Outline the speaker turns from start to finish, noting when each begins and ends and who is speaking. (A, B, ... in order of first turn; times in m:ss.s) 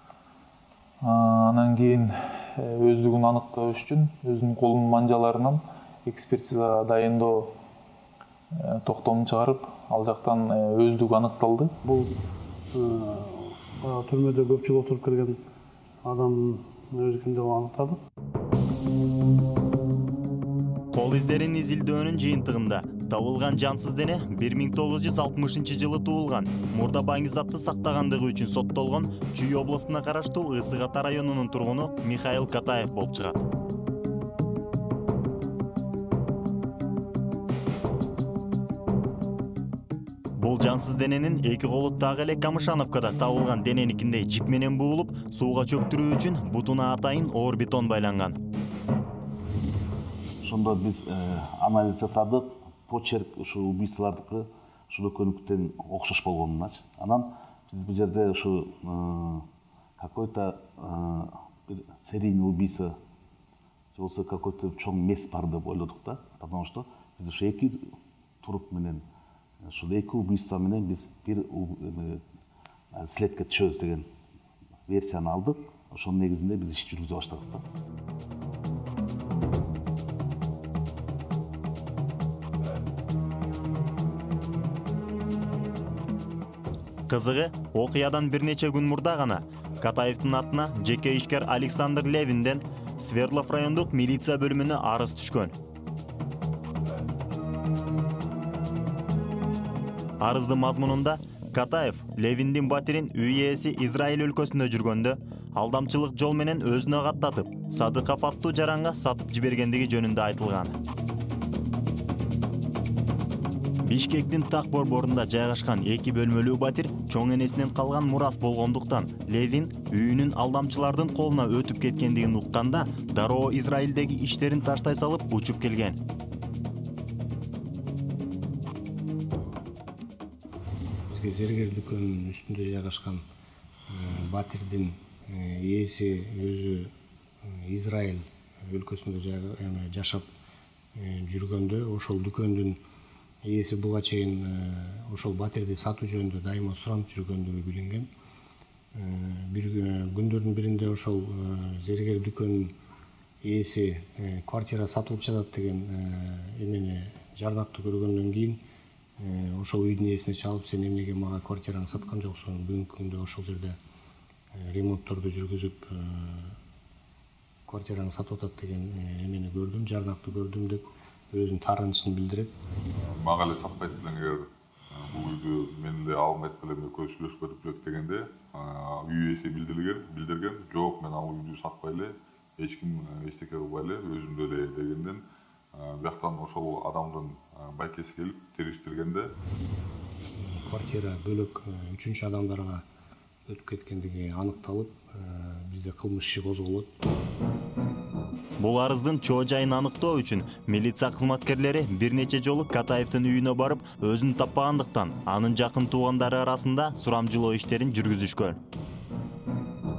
0:01.0-0:07.5 A
0:08.5-0:11.8 A
0:11.8-0:12.2 B
0:12.7-0:15.4 B
0:16.0-0:18.0 B
0:20.9-0:33.4 C
0:40.4-0:48.4 C
0:50.4-0:59.5 D
1:00.0-1:03.0 D
1:04.0-1:09.0 D
1:09.6-1:12.2 D
1:12.9-1:14.1 D
1:14.9-1:17.7 D
1:27.1-1:35.6 C
1:40.2-1:50.8 C
1:53.8-2:06.0 C
2:11.1-2:13.2 E
2:13.9-2:20.3 E
2:20.9-2:22.8 E
2:23.4-2:28.1 E
2:28.9-2:32.8 E
2:33.4-2:38.6 E
2:39.2-2:43.8 E
2:44.5-2:46.6 E
2:47.7-2:52.6 E
2:53.0-3:09.3 F
3:10.4-3:12.8 E
3:13.5-3:16.9 E
3:18.6-3:28.6 C